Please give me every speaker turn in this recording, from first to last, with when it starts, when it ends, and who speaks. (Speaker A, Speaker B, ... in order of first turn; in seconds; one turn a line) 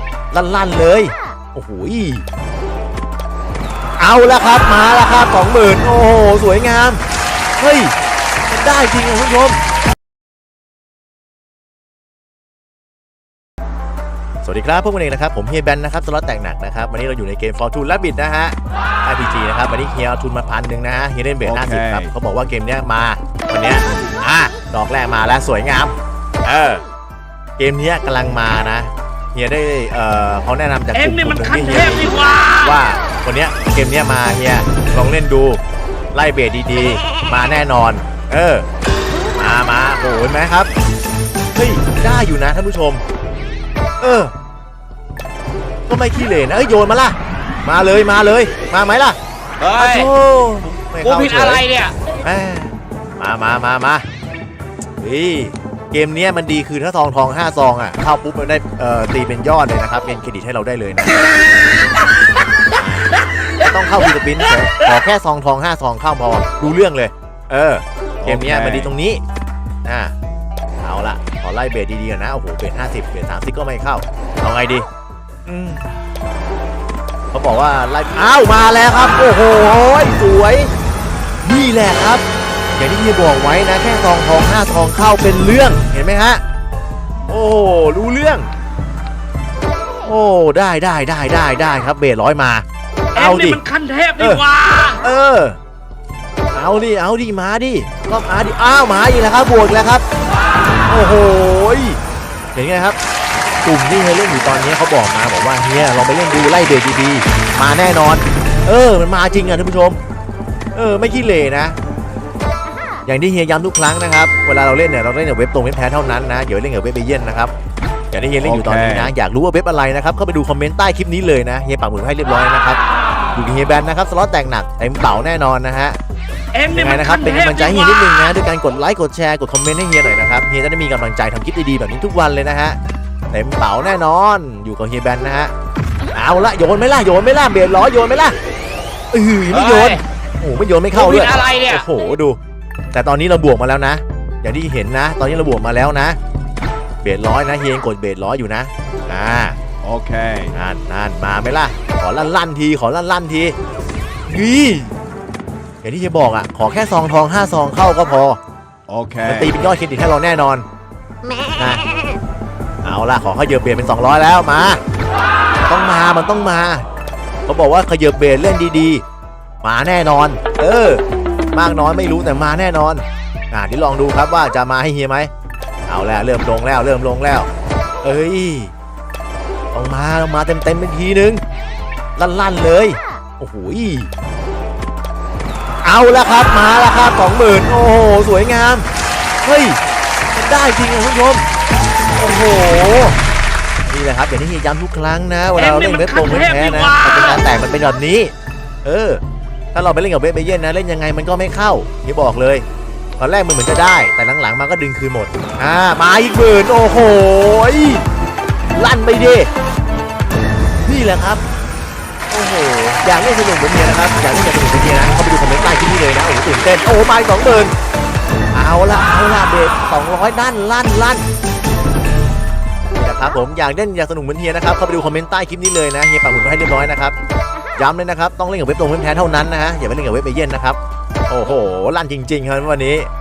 Speaker A: 0.3-2.2
Speaker A: 4.0-7.0
Speaker A: 7.6-7.9
Speaker A: 8.5-9.6
Speaker A: 14.4-25.9
Speaker B: 21.4-22.1
Speaker A: 26.4-26.8
Speaker A: 27.6-35.6
Speaker C: 30.9-32.8
Speaker A: 36.1-38.7
Speaker A: 39.4-40.7
Speaker A: 41.5-43.0
Speaker A: 44.0-44.3
Speaker A: 45.9-49.2
Speaker C: 49.6-50.1
Speaker A: 49.8-51.6
Speaker C: 51.0-52.0
Speaker A: 52.2-54.0
Speaker A: 55.0-61.2
Speaker A: 62.8-69.2
Speaker B: 68.2-68.9
Speaker A: 69.9-70.1
Speaker A: 70.8-74.9
Speaker A: 75.5-75.8
Speaker A: 77.3-80.7
Speaker A: 81.4-82.2
Speaker A: 82.8-86.4
Speaker A: 87.3-88.5
Speaker A: 90.0-92.6
Speaker A: 93.2-93.6
Speaker C: 93.2-95.0
Speaker A: 95.0-95.6
Speaker A: 96.5-100.0
Speaker A: 100.9-102.0
Speaker A: 102.5-103.0
Speaker A: 103.6-110.0
Speaker A: 110.8-111.8
Speaker A: 113.1-117.5
Speaker A: 118.1-122.8
Speaker B: 118.4-119.1
Speaker A: 123.3-126.0
Speaker C: 126.5-128.3
Speaker A: 126.7-132.8
Speaker A: 133.3-135.5
Speaker A: 136.1-138.4
Speaker A: 139.1-142.4
Speaker C: 139.5-140.0
Speaker C: 140.9-141.9
Speaker A: 142.9-146.2
Speaker A: 147.0-149.6
Speaker B: 149.8-150.6
Speaker A: 150.5-153.6
Speaker A: 154.3-154.9
Speaker A: 155.8-158.4
Speaker B: 158.9-159.6
Speaker A: 159.2-160.7
Speaker A: 161.6-161.8
Speaker A: 162.8-164.8
Speaker A: 165.7-166.8
Speaker A: 167.5-169.0
Speaker A: 169.6-171.0
Speaker A: 171.5-175.3
Speaker A: 175.9-177.5
Speaker A: 178.0-178.7
Speaker A: 179.7-181.4
Speaker A: 182.2-184.1
Speaker A: 185.8-188.8
Speaker A: 189.4-189.8
Speaker A: 190.3-191.5
Speaker A: 192.2-193.2
Speaker A: 193.9-198.3
Speaker C: 195.6-197.4
Speaker A: 198.8-199.2
Speaker A: 199.7-202.7
Speaker A: 203.2-208.1
Speaker A: 208.8-209.5
Speaker A: 210.8-211.4
Speaker A: 212.3-217.7
Speaker A: 218.5-221.2
Speaker A: 222.9-227.2
Speaker A: 227.8-230.8
Speaker A: 231.3-233.1